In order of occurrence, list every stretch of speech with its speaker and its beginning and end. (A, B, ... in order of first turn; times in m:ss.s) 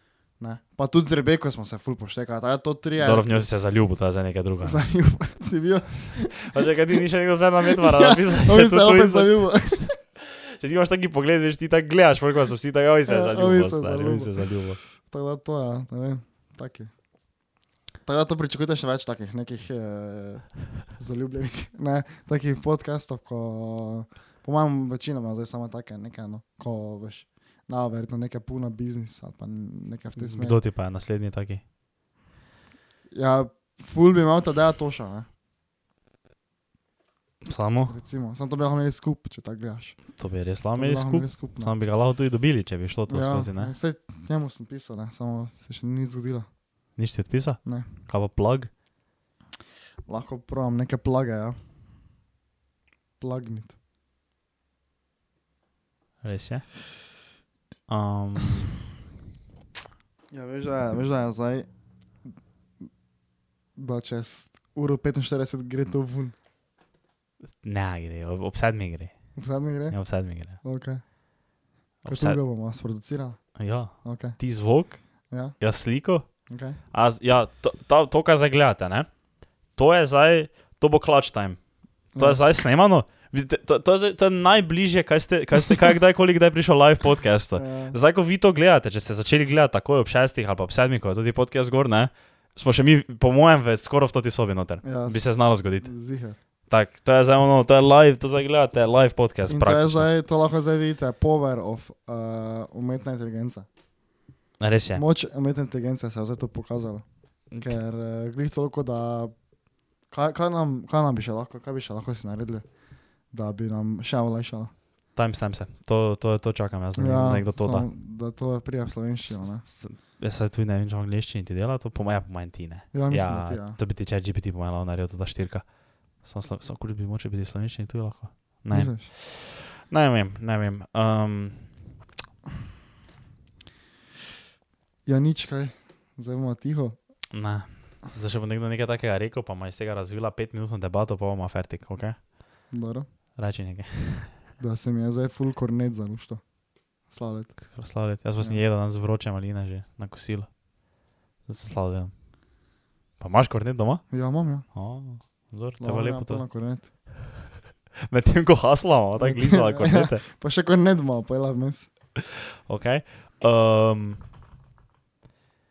0:00.4-0:03.5 A
0:03.0-0:04.8 B
0:04.6-0:06.6 A
0:06.3-0:14.8 B
0:07.7-0:10.0 A
0:13.1-0:14.4 A
0:15.0-0:16.9 A
0:18.0-0:30.6 A
0:30.2-0:31.6 B
0:33.1-0:35.3 A
0:37.4-0:37.9 B
0:37.9-0:40.0 A
0:40.2-0:43.7 B
0:40.8-0:41.7 A
0:43.1-0:46.5 A
0:47.0-0:48.7 B
0:50.1-0:51.6 A
0:53.2-0:53.7 A
0:56.2-0:56.6 B
0:57.9-0:58.8 B
1:00.3-1:01.7 A
1:03.8-1:06.3 A
1:07.6-1:09.1 B
1:09.4-1:10.0 A
1:09.9-1:10.6 B
1:10.6-1:11.0 A
1:12.0-1:12.4 B
1:12.1-1:13.4 A
1:13.6-1:15.0 B
1:14.0-1:14.4 A
1:15.3-1:15.6 A
1:15.6-1:16.3 B
1:16.5-1:16.8 A
1:16.9-1:19.1 B
1:19.8-1:21.6 B
1:22.1-1:35.9 B
1:22.2-1:22.4 A
1:27.6-1:28.0 A
1:34.8-1:36.4 A
1:36.7-1:40.1 B
1:39.5-1:43.7 A
1:44.6-1:45.0 B
1:45.0-1:47.0 A
1:47.6-1:49.4 A
1:50.1-1:52.6 A
1:53.3-1:54.7 A
1:55.2-1:57.9 B
1:57.0-1:59.6 A
1:59.3-2:11.7 B
2:02.9-2:03.8 A
2:08.7-2:09.1 A
2:15.1-2:17.0 A
2:17.3-2:22.2 B
2:22.7-2:23.1 A
2:23.4-2:24.4 B
2:24.6-2:26.4 A
2:27.1-2:27.7 A
2:27.7-2:30.6 B
2:31.5-2:32.1 B
2:33.2-2:34.1 B
2:34.1-2:34.7 A
2:34.7-2:36.4 B
2:35.8-2:36.9 A
2:38.1-2:40.2 B
2:39.2-2:41.9 A
2:42.7-2:44.2 B